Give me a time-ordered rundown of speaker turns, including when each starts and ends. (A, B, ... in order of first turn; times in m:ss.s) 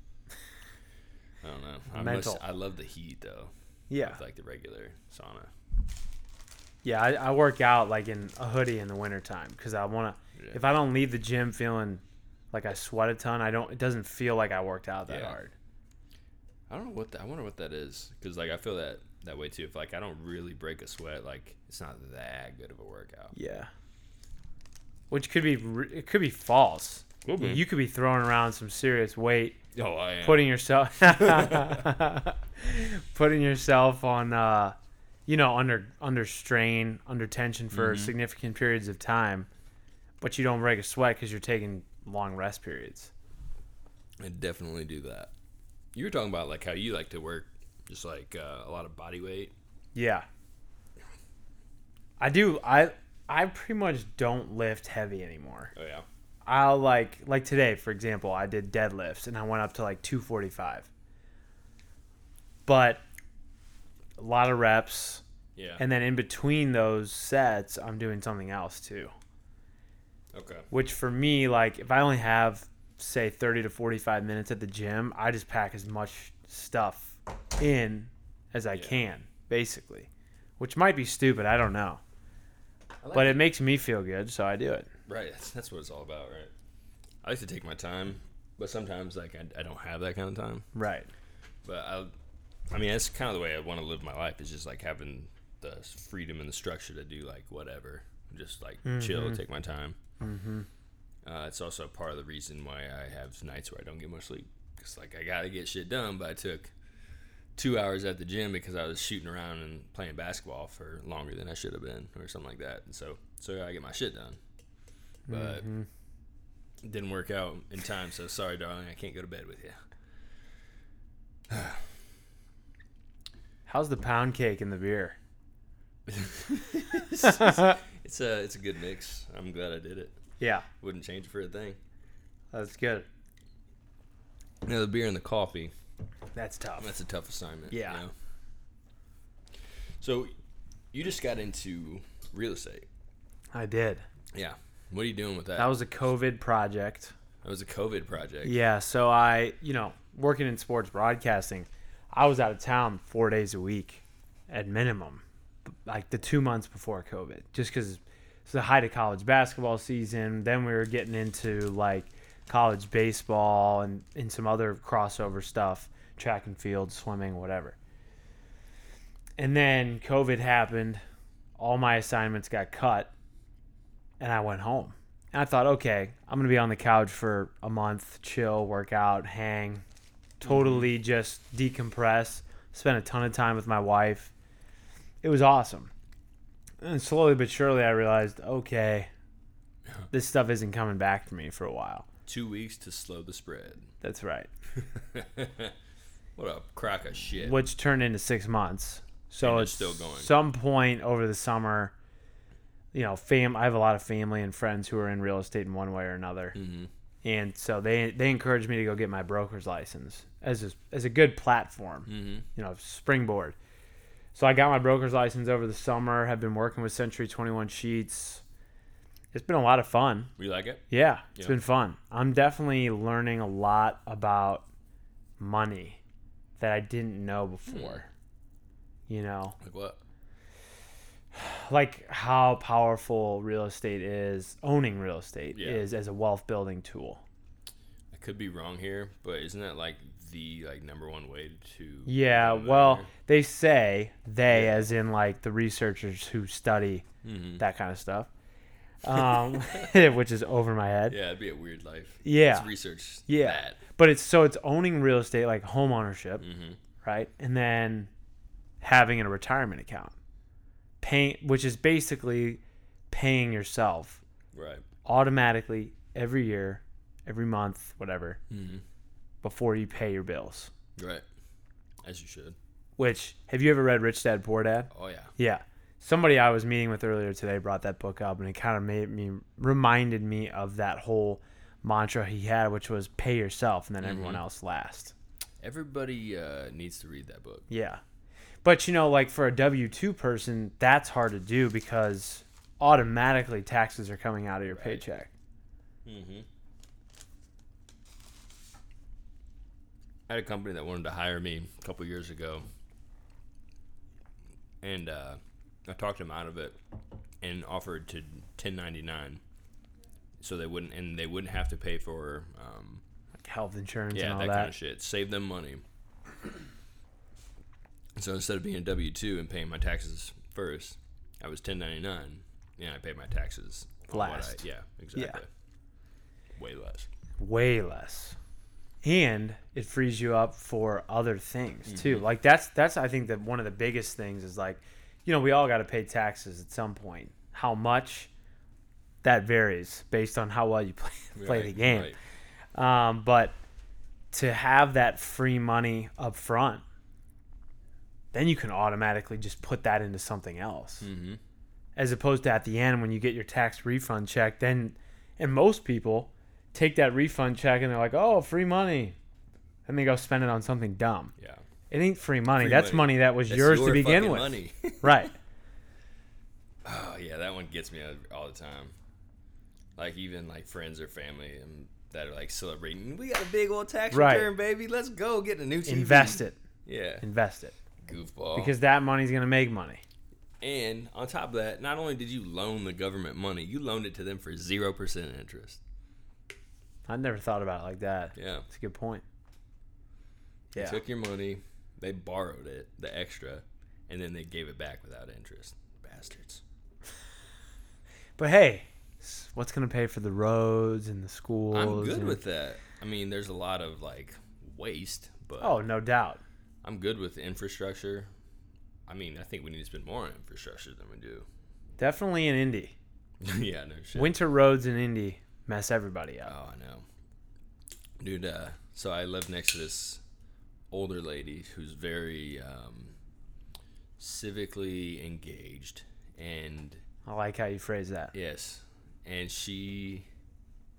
0:01.4-0:05.5 A
0:01.9-0:02.4 B
0:03.9-0:04.2 B
0:06.8-0:15.5 B
0:15.1-0:15.4 A
0:16.7-0:23.3 A
0:23.3-0:23.7 B
0:25.1-0:29.6 B
0:27.2-0:27.6 A
0:29.7-0:30.5 A
0:30.2-0:39.5 B
0:31.0-0:31.9 A
0:37.7-0:38.1 A
0:40.2-0:43.1 B
0:44.2-0:45.3 A
0:45.9-0:49.5 A
0:49.9-0:50.2 B
0:52.2-0:55.7 B
0:55.7-0:56.0 A
0:56.4-1:00.9 B
1:02.6-1:03.0 B
1:04.2-1:05.2 B
1:05.6-1:05.8 A
1:05.8-1:09.1 B
1:10.3-1:10.7 A
1:10.7-1:22.0 B
1:18.7-1:19.0 A
1:23.0-1:23.4 A
1:23.1-1:24.9 B
1:25.0-1:26.5 A
1:27.2-1:30.7 A
1:30.7-1:31.1 B
1:31.6-1:32.1 A
1:32.7-1:40.0 A
1:38.8-1:39.4 B
1:40.2-1:40.7 B
1:41.2-1:46.7 A
1:47.5-1:54.4 A
1:55.3-1:55.9 B
1:55.3-1:55.6 A
1:56.8-1:59.8 A
2:01.5-2:02.0 A
2:03.7-2:05.2 B
2:06.1-2:10.2 A
2:07.4-2:07.7 B
2:10.4-2:10.7 B
2:10.8-2:11.8 A
2:12.5-2:13.1 B
2:14.6-2:15.7 A
2:16.3-2:16.9 B
2:16.8-2:18.1 A
2:17.7-2:18.0 B
2:19.6-2:20.3 A
2:20.9-2:22.9 A
2:23.5-2:24.0 B
2:24.3-2:25.7 A
2:25.6-2:27.1 B
2:27.4-2:28.6 A
2:28.4-2:47.8 B
2:49.4-2:51.0 B
2:51.6-2:53.1 B
2:54.2-2:59.8 B
3:00.4-3:04.3 B
3:00.4-3:00.9 A
3:05.2-3:05.9 B
3:06.8-3:09.1 B
3:10.1-3:12.0 B
3:12.2-3:13.9 A
3:14.0-3:14.5 B
3:14.7-3:15.7 A
3:16.4-3:17.6 A
3:17.4-3:21.9 B
3:19.4-3:20.3 A
3:22.9-3:26.6 B
3:26.5-3:26.9 A
3:27.2-3:33.6 B
3:32.1-3:32.4 A
3:34.3-3:38.4 B
3:39.3-3:40.3 B
3:40.4-3:41.6 A
3:40.9-3:44.6 B
3:45.4-3:46.0 B
3:46.6-3:48.1 B
3:47.7-3:48.0 A
3:49.1-3:49.6 B
3:49.6-3:50.0 A
3:51.3-3:57.2 B
3:55.5-3:55.8 A
3:58.1-4:03.1 A
4:02.1-4:07.0 B
4:04.5-4:04.9 A
4:07.2-4:07.6 A
4:07.6-4:08.3 B
4:09.0-4:11.2 B
4:09.1-4:09.9 A
4:11.1-4:13.8 A
4:12.2-4:12.7 B
4:13.2-4:16.4 B
4:16.4-4:16.8 A
4:17.0-4:18.1 B
4:18.8-4:20.1 B
4:21.0-4:24.2 B
4:24.5-4:24.8 A
4:25.0-4:28.4 B
4:28.5-4:28.8 A
4:29.4-4:30.7 B
4:31.0-4:31.2 A
4:32.0-4:32.6 A
4:33.0-4:45.1 B
4:34.9-4:35.3 A
4:44.0-4:44.4 A
4:45.6-4:47.6 A
4:47.7-4:48.0 B
4:48.6-4:55.3 B
4:54.7-4:55.0 A
4:56.0-4:56.5 A
5:00.3-5:02.6 A
5:04.8-5:06.8 A
5:07.4-5:09.4 A
5:10.4-5:13.0 A
5:13.4-5:14.7 B
5:14.1-5:15.8 A
5:18.2-5:25.5 A
5:24.1-5:24.6 B
5:25.1-5:25.4 B
5:26.5-5:27.1 A
5:27.4-5:28.4 B
5:29.0-5:38.3 B
5:31.8-5:32.3 A
5:39.2-5:42.2 B
5:41.3-5:42.2 A
5:42.7-5:43.5 B
5:44.3-5:46.8 B
5:48.3-5:51.1 B
5:51.0-5:51.4 A
5:52.0-5:59.2 B
5:59.8-6:01.3 B
6:01.4-6:01.6 A
6:01.9-6:05.3 B
6:02.6-6:05.3 A
6:06.8-6:08.9 A
6:10.0-6:17.2 A
6:14.1-6:14.5 B
6:15.8-6:16.6 B
6:17.2-6:17.7 B
6:18.0-6:18.7 A
6:18.5-6:20.0 B
6:20.6-6:25.8 A
6:27.1-6:29.2 B
6:28.3-6:28.6 A
6:30.7-6:31.0 B
6:30.8-6:36.6 A
6:38.4-6:42.4 B
6:41.7-6:45.8 A
6:45.6-6:46.4 B
6:46.8-6:48.3 A
6:49.1-6:51.5 A
6:52.0-6:53.0 B
6:53.4-6:54.4 A
6:54.1-6:56.5 B
6:56.4-6:57.0 A
6:58.2-7:00.2 A
7:00.9-7:03.2 A
7:04.2-7:07.0 A
7:07.2-7:08.3 B
7:08.3-7:10.3 A